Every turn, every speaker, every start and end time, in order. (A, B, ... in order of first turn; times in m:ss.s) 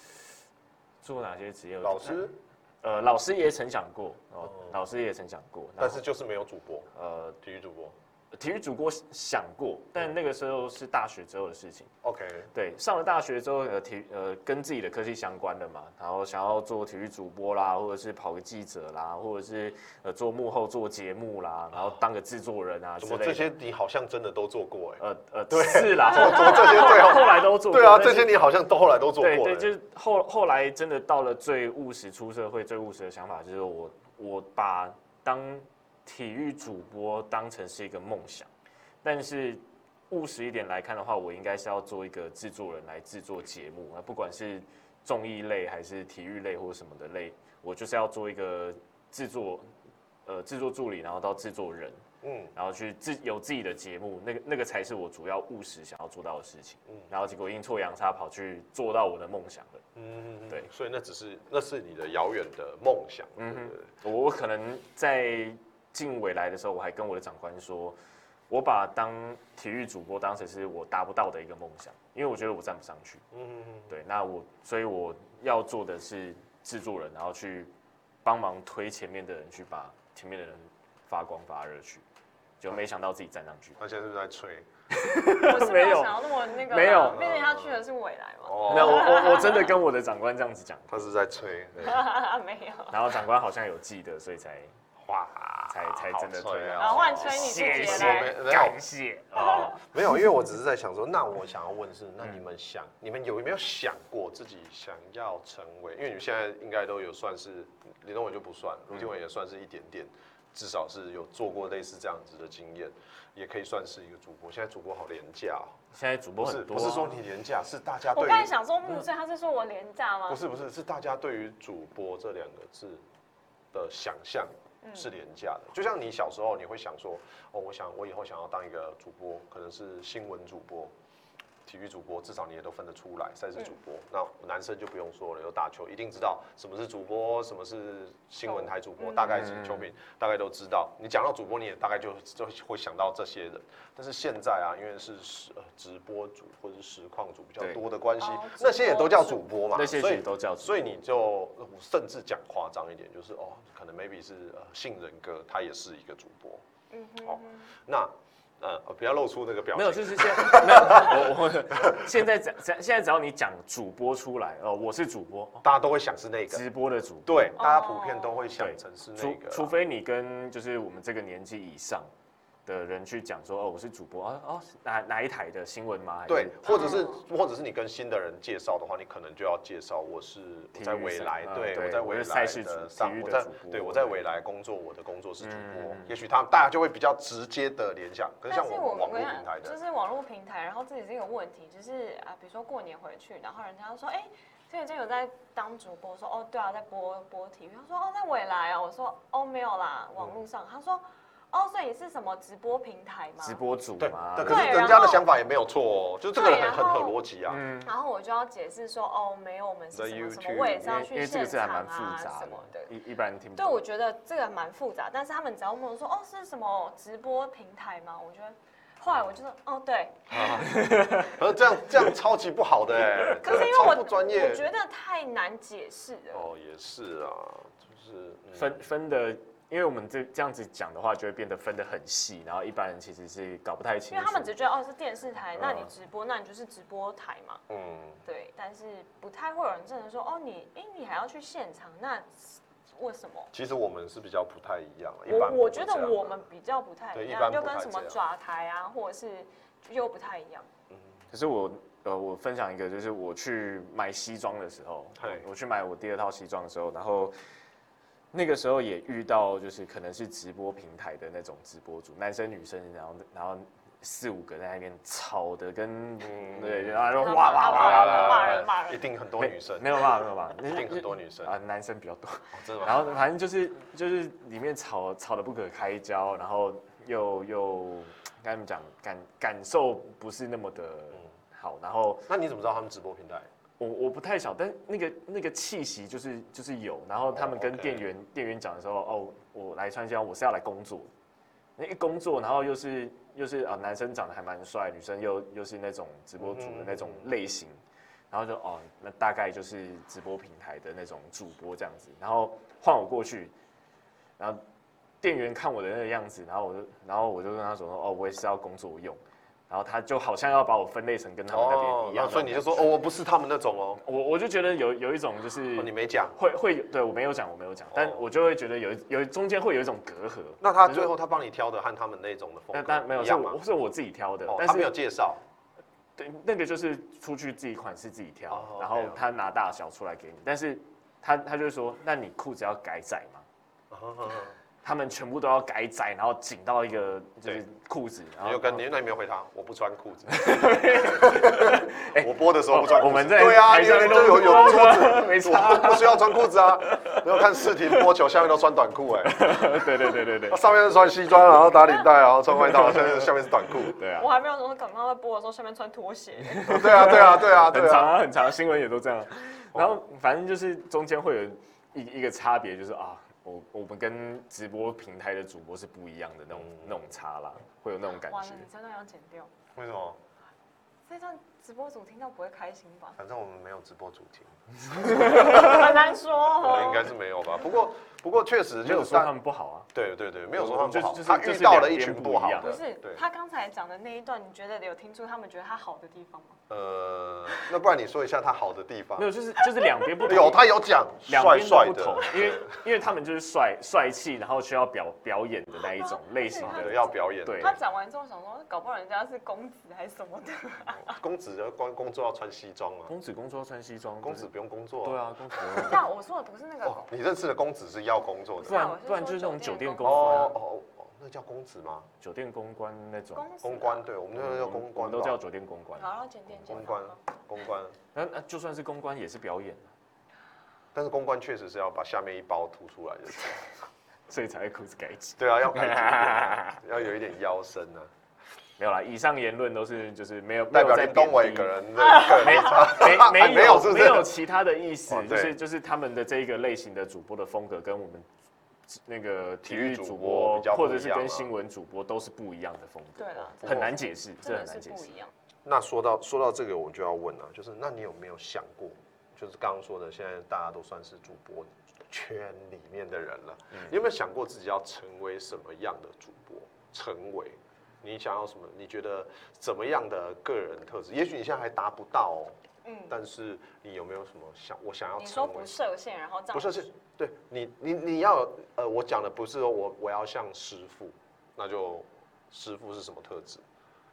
0:01.0-0:02.3 A
0:01.8-0:02.3 B
0:02.8-0:06.0 A
0:05.8-0:08.0 B
0:06.9-0:07.4 A
0:08.3-0:11.9 A
0:12.0-0:12.5 B
0:12.5-0:23.5 A
0:23.0-0:29.7 B
0:25.0-0:28.4 A
0:26.2-0:27.4 C
0:29.2-0:38.5 A
0:39.0-0:49.7 A
0:50.2-0:52.0 A
0:52.2-0:52.5 B
0:52.5-0:59.8 A
1:00.0-1:03.9 B
1:03.4-1:08.0 A
1:08.5-1:13.2 A
1:13.3-1:13.9 B
1:13.9-1:17.7 A
1:18.2-1:22.0 A
1:22.6-1:23.8 A
1:23.8-1:24.7 B
1:24.9-1:27.2 A
1:25.3-1:29.8 C
1:26.9-1:27.8 B
1:28.4-1:29.4 B
1:28.6-1:31.0 A
1:30.9-1:32.1 B
1:31.8-1:33.0 C
1:32.9-1:34.7 A
1:35.0-1:55.7 B
1:35.7-1:40.1 A
1:36.8-1:38.4 C
1:55.9-1:57.2 A
1:56.4-1:58.5 B
1:58.1-2:00.4 C
2:00.3-2:03.0 B
2:03.7-2:10.9 B
2:04.8-2:05.1 C
2:11.6-2:36.6 B
2:18.4-2:19.4 C
2:19.3-2:19.9 A
2:28.2-2:29.4 C
2:29.7-2:31.0 A
2:36.9-2:37.7 C
2:37.2-2:42.0 B
2:39.7-2:45.6 A
2:45.6-2:46.6 B
2:46.5-2:47.6 A
2:47.2-2:49.7 B
2:47.6-2:48.4 C
2:48.6-2:52.1 A
2:52.6-2:57.0 A
2:56.3-3:09.8 B
2:56.7-2:57.2 C
3:00.7-3:04.2 A
3:05.4-3:06.1 A
3:08.5-3:23.6 C
3:20.2-3:20.4 B
3:23.4-3:24.8 A
3:24.0-3:27.6 B
3:24.4-3:25.2 C
3:26.3-3:27.2 C
3:27.5-3:27.9 A
3:27.8-3:32.9 C
3:29.9-3:31.1 B
3:30.8-3:33.8 A
3:33.6-3:40.7 C
3:40.3-3:44.7 B
3:40.7-3:41.3 A
3:43.4-3:46.5 C
3:46.3-3:48.8 B
3:48.5-3:54.5 A
3:54.1-3:57.6 C
3:55.6-3:55.9 B
3:57.7-3:58.2 B
3:58.2-4:03.5 C
4:03.5-4:06.4 B
4:05.3-4:10.7 C
4:07.1-4:08.2 B
4:10.9-4:11.2 B
4:11.3-4:17.3 A
4:15.2-4:15.4 B
4:18.3-4:28.7 A
4:26.2-4:27.1 B
4:27.1-4:29.0 C
4:27.6-4:30.1 B
4:29.4-4:42.3 A
4:30.7-4:31.5 B
4:32.5-4:33.2 B
4:42.3-4:43.5 B
4:43.8-4:51.1 A
4:47.3-4:48.1 B
4:51.8-5:03.5 A
4:56.4-4:57.3 B
5:05.2-5:12.9 A
5:11.5-5:14.0 B
5:14.0-5:21.1 A
5:15.8-5:16.4 B
5:17.9-5:18.2 B
5:20.6-5:23.6 B
5:22.7-5:24.9 A
5:24.5-5:25.4 B
5:26.2-5:33.4 A
5:28.5-5:29.2 B
5:33.9-5:34.5 B
5:34.8-5:38.8 A
5:38.4-5:49.4 B
5:40.3-5:46.3 A
5:46.8-5:48.0 A
5:49.3-5:50.6 A
5:50.5-5:54.0 B
5:52.6-5:53.3 A
5:53.8-5:54.3 A
5:54.2-5:56.8 C
5:56.4-6:08.7 A
5:56.6-5:58.2 B
6:06.5-6:06.9 B
6:08.2-6:09.5 C
6:09.7-6:10.2 B
6:11.1-6:13.2 C
6:13.2-6:16.0 B
6:14.9-6:15.7 A
6:15.0-6:17.1 C
6:16.6-6:19.3 B
6:18.8-6:19.9 A
6:19.9-6:23.2 B
6:20.5-6:22.7 A
6:22.6-6:26.6 C
6:26.7-6:29.3 B
6:29.2-6:30.7 A
6:30.2-6:32.8 B
6:31.2-6:37.8 A
6:35.9-6:41.2 C
6:36.6-6:37.7 B
6:41.0-6:43.1 B
6:43.1-6:44.5 A
6:44.2-6:45.9 B
6:45.0-6:46.0 A
6:45.8-6:47.1 C
6:46.8-6:48.8 B
6:48.6-6:50.5 C
6:48.6-6:50.6 A
6:50.0-6:52.1 B
6:52.2-6:53.4 A
6:53.3-6:54.1 C
6:53.6-6:55.4 B
6:54.3-6:56.1 A
6:56.0-6:57.2 C
6:56.6-6:58.0 B
6:58.1-6:59.9 A
7:00.9-7:03.7 B
7:04.3-7:06.8 A
7:05.4-7:08.1 B
7:08.8-7:18.3 A
7:10.7-7:14.3 B
7:12.1-7:12.7 C
7:15.1-7:15.6 B
7:18.9-7:25.2 A
7:19.6-7:21.5 B
7:23.2-7:25.3 C
7:23.6-7:23.9 B
7:25.6-7:42.6 B
7:42.8-7:43.2 C
7:43.1-7:45.8 B
7:45.2-7:46.9 C
7:46.5-7:53.6 B